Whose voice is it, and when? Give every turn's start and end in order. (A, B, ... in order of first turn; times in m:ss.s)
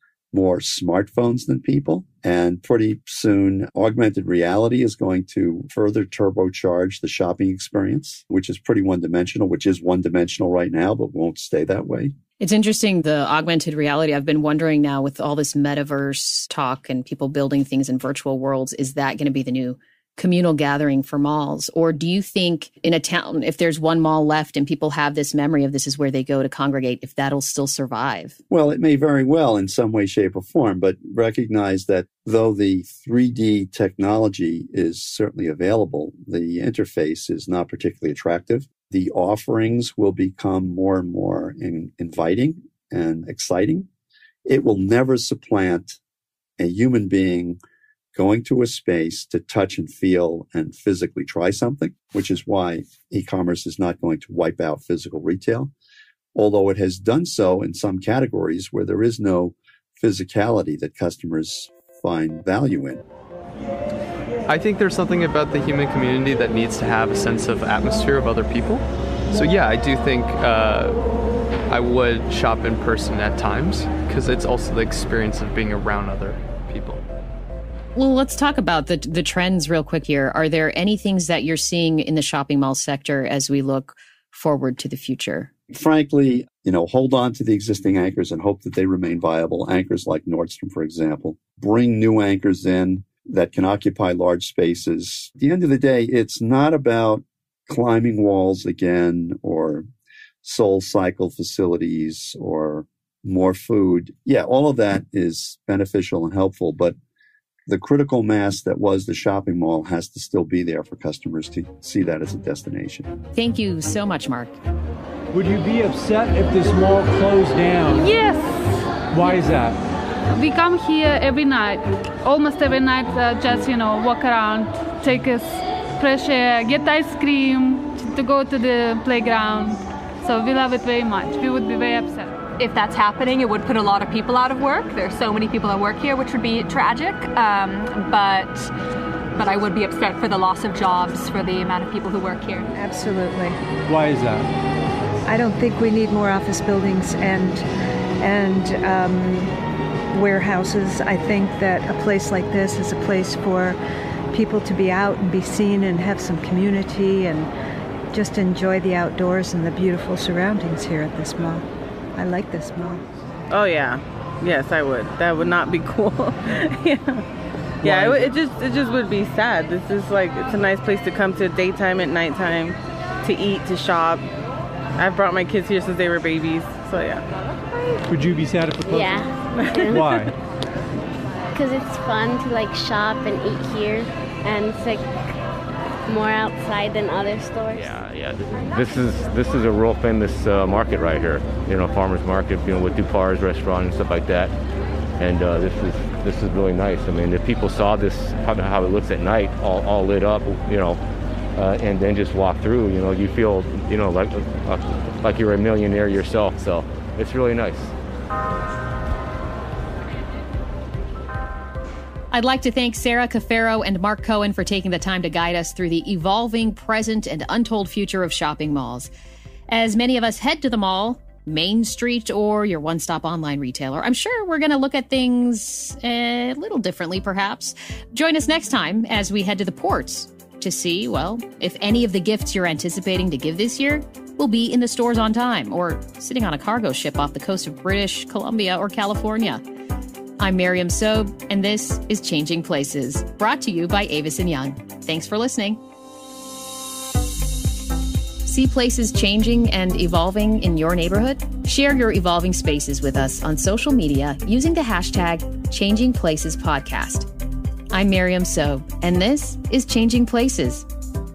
0:00.3-0:12.1 A
0:12.4-0:28.4 B
0:28.5-0:43.9 A
0:44.5-0:46.0 A
0:46.6-0:47.6 A
0:48.1-0:55.7 A
0:56.3-1:03.0 A
1:04.5-1:11.0 C
1:11.7-1:17.0 C
1:18.0-1:25.5 B
1:25.7-1:39.9 A
1:40.4-1:47.0 A
1:47.7-1:53.1 A
1:53.4-1:54.6 B
1:55.3-1:58.1 D
1:57.9-1:59.4 E
1:59.1-1:59.8 D
2:00.3-2:12.4 E
2:12.6-2:18.7 F
2:19.4-2:22.7 F
2:22.7-2:23.6 G
2:23.9-2:24.5 D
2:25.3-2:27.6 G
2:28.2-2:29.5 G
2:30.1-2:33.8 G
2:34.3-2:37.5 G
2:38.1-2:43.0 G
2:43.5-2:47.2 H
2:47.8-2:48.3 D
2:47.8-2:54.2 H
2:55.0-2:57.7 H
2:58.1-2:59.2 D
2:58.9-3:00.2 I
2:59.8-3:00.3 D
3:01.5-3:05.1 I
3:06.1-3:08.0 I
3:07.7-3:14.5 J
3:15.2-3:21.0 J
3:21.6-3:27.9 J
3:32.3-3:39.1 B
3:39.7-3:59.6 B
4:00.4-4:05.8 B
4:08.5-4:17.3 B
4:17.9-4:20.9 B